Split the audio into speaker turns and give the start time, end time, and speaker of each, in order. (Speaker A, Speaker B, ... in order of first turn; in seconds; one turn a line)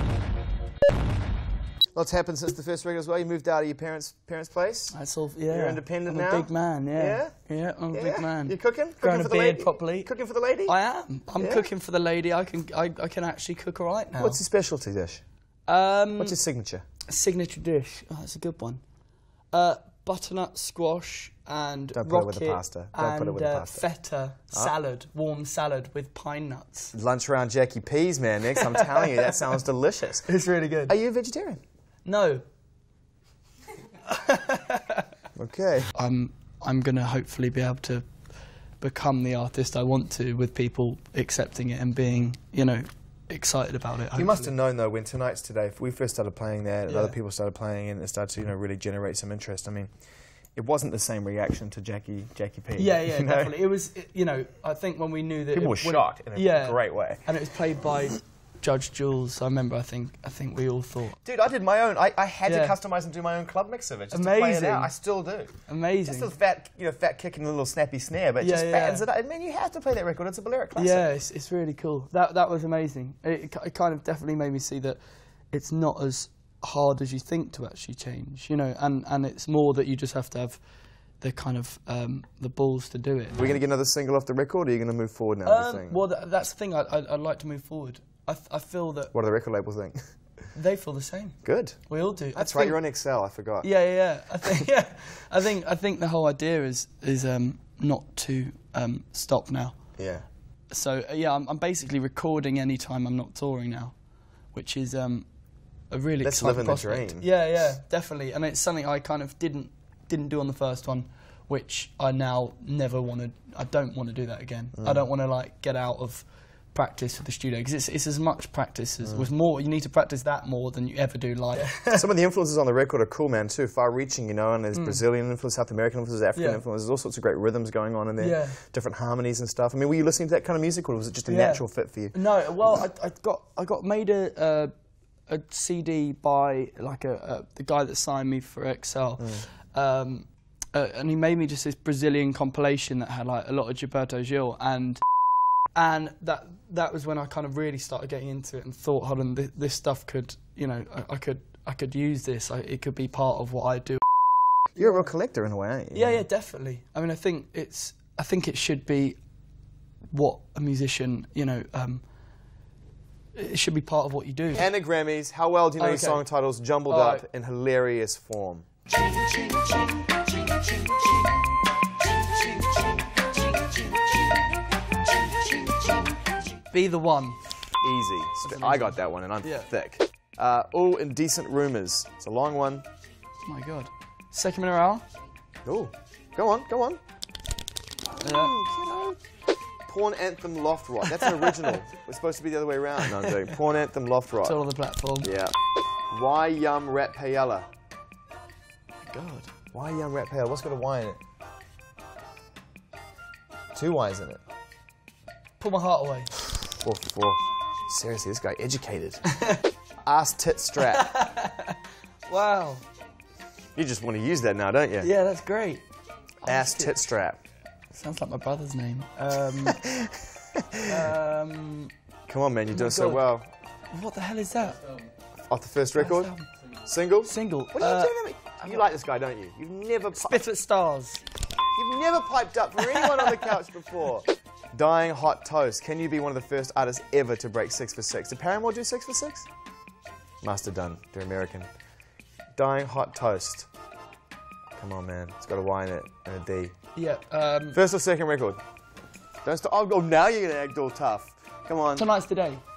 Speaker A: 1.9-4.9
Speaker B: 4.9-10.1
Speaker A: 5.5-7.3
Speaker A: 7.9-10.8
Speaker B: 10.7-14.4
Speaker A: 11.4-11.7
Speaker A: 14.2-15.2
Speaker B: 15.7-16.4
Speaker A: 16.2-16.9
Speaker B: 17.1-18.8
Speaker B: 19.5-26.9
Speaker A: 21.9-23.9
Speaker A: 26.9-30.3
Speaker B: 28.6-29.3
Speaker B: 30.2-30.9
Speaker A: 30.9-31.6
Speaker B: 32.1-32.4
Speaker B: 34.1-35.1
Speaker A: 35.4-35.9
Speaker B: 36.0-38.1
Speaker B: 38.8-44.5
Speaker A: 44.1-49.9
Speaker B: 46.9-47.2
Speaker A: 50.5-53.6
Speaker B: 52.8-61.2
Speaker A: 55.5-57.2
Speaker A: 61.2-65.5
Speaker B: 62.5-62.8
Speaker B: 64.1-64.9
Speaker B: 65.7-66.3
Speaker A: 66.0-71.1
Speaker B: 68.4-69.0
Speaker B: 70.8-75.0
Speaker B: 75.5-80.6
Speaker B: 81.2-83.5
Speaker A: 83.4-86.0
Speaker B: 85.4-89.1
Speaker A: 89.1-90.0
Speaker B: 90.5-92.8
Speaker A: 91.5-91.8
Speaker A: 92.4-93.7
Speaker B: 93.6-99.8
Speaker A: 100.0-100.3
Speaker B: 100.7-104.0
Speaker B: 104.5-105.3
Speaker B: 105.9-122.1
Speaker A: 106.2-107.3
Speaker A: 114.8-115.0
Speaker A: 119.0-119.3
Speaker A: 121.9-132.2
Speaker B: 124.7-125.0
Speaker B: 126.3-126.6
Speaker B: 128.2-128.6
Speaker B: 131.3-134.7
Speaker B: 135.3-145.0
Speaker A: 139.2-139.4
Speaker B: 145.8-154.0
Speaker B: 154.7-155.1
Speaker A: 154.8-156.2
Speaker B: 155.9-159.2
Speaker B: 160.1-162.0
Speaker B: 163.3-164.7
Speaker A: 164.5-168.7
Speaker B: 165.8-166.2
Speaker B: 166.9-167.2
Speaker B: 176.7-177.4
Speaker A: 177.8-182.9
Speaker B: 178.4-179.7
Speaker B: 183.4-185.0
Speaker A: 185.7-187.0
Speaker A: 188.1-189.2
Speaker B: 188.2-188.6
Speaker A: 189.9-194.6
Speaker B: 191.1-191.8
Speaker B: 193.1-193.5
Speaker B: 194.4-195.3
Speaker A: 195.2-195.5
Speaker A: 196.1-197.7
Speaker B: 199.0-199.5
Speaker A: 199.7-201.2
Speaker A: 203.7-204.4
Speaker B: 205.6-206.3
Speaker A: 206.7-209.2
Speaker A: 210.0-211.1
Speaker B: 210.8-212.8
Speaker A: 213.8-215.1
Speaker B: 215.0-215.8
Speaker B: 216.4-217.0
Speaker A: 216.5-217.4
Speaker B: 217.9-219.8
Speaker A: 219.7-221.0
Speaker B: 220.9-221.9
Speaker A: 222.3-223.5
Speaker B: 222.7-223.2
Speaker B: 223.9-224.8
Speaker A: 225.5-226.3
Speaker B: 226.0-226.5
Speaker A: 226.9-230.4
Speaker B: 227.3-228.9
Speaker B: 230.2-231.2
Speaker A: 231.8-239.5
Speaker B: 232.8-233.6
Speaker A: 240.4-241.7
Speaker A: 242.6-243.7
Speaker A: 244.8-246.7
Speaker B: 246.9-247.8
Speaker A: 247.7-248.6
Speaker A: 249.4-252.1
Speaker B: 251.9-252.6